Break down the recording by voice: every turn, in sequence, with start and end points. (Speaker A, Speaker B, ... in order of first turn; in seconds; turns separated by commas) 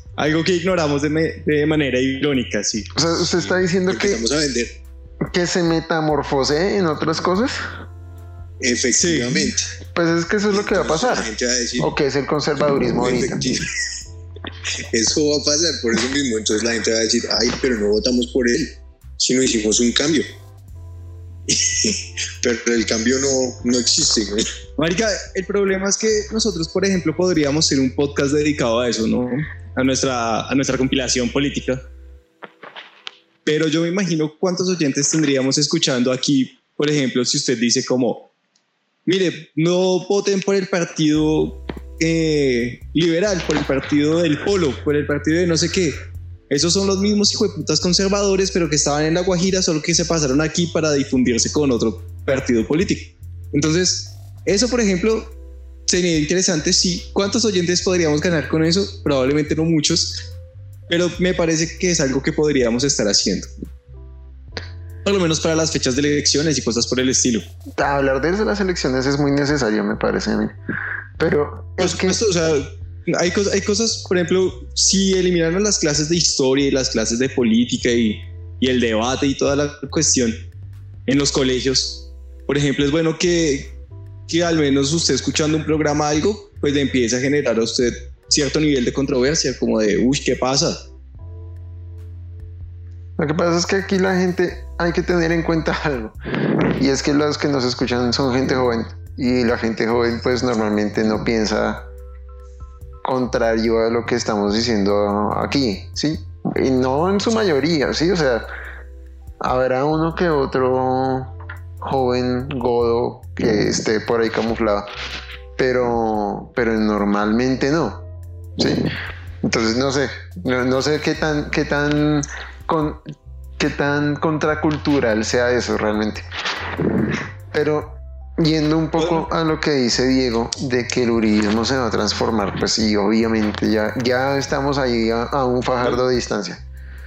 Speaker A: 0.2-2.9, Speaker B: 2.9-4.2, Speaker C: 3.9-4.8, Speaker B: 5.2-7.6, Speaker C: 8.6-9.7, Speaker A: 8.9-9.5, Speaker B: 9.9-13.4, Speaker C: 10.5-11.9, Speaker C: 13.0-13.7, Speaker C: 14.9-20.2, Speaker C: 21.5-24.5, Speaker A: 24.8-31.8, Speaker A: 33.4-38.3, Speaker A: 39.0-46.0, Speaker A: 46.5-55.3, Speaker A: 55.9-60.2, Speaker A: 60.9-63.5, Speaker A: 65.0-67.4, Speaker B: 67.8-70.5, Speaker B: 71.2-72.2, Speaker A: 71.8-80.4, Speaker A: 81.1-83.7, Speaker A: 84.3-90.8, Speaker B: 93.2-101.9, Speaker B: 103.0-108.5, Speaker B: 109.4-114.9, Speaker B: 115.6-118.0, Speaker B: 118.6-118.8, Speaker B: 119.4-123.0, Speaker B: 123.6-126.2, Speaker B: 127.5-136.6, Speaker A: 129.0-129.3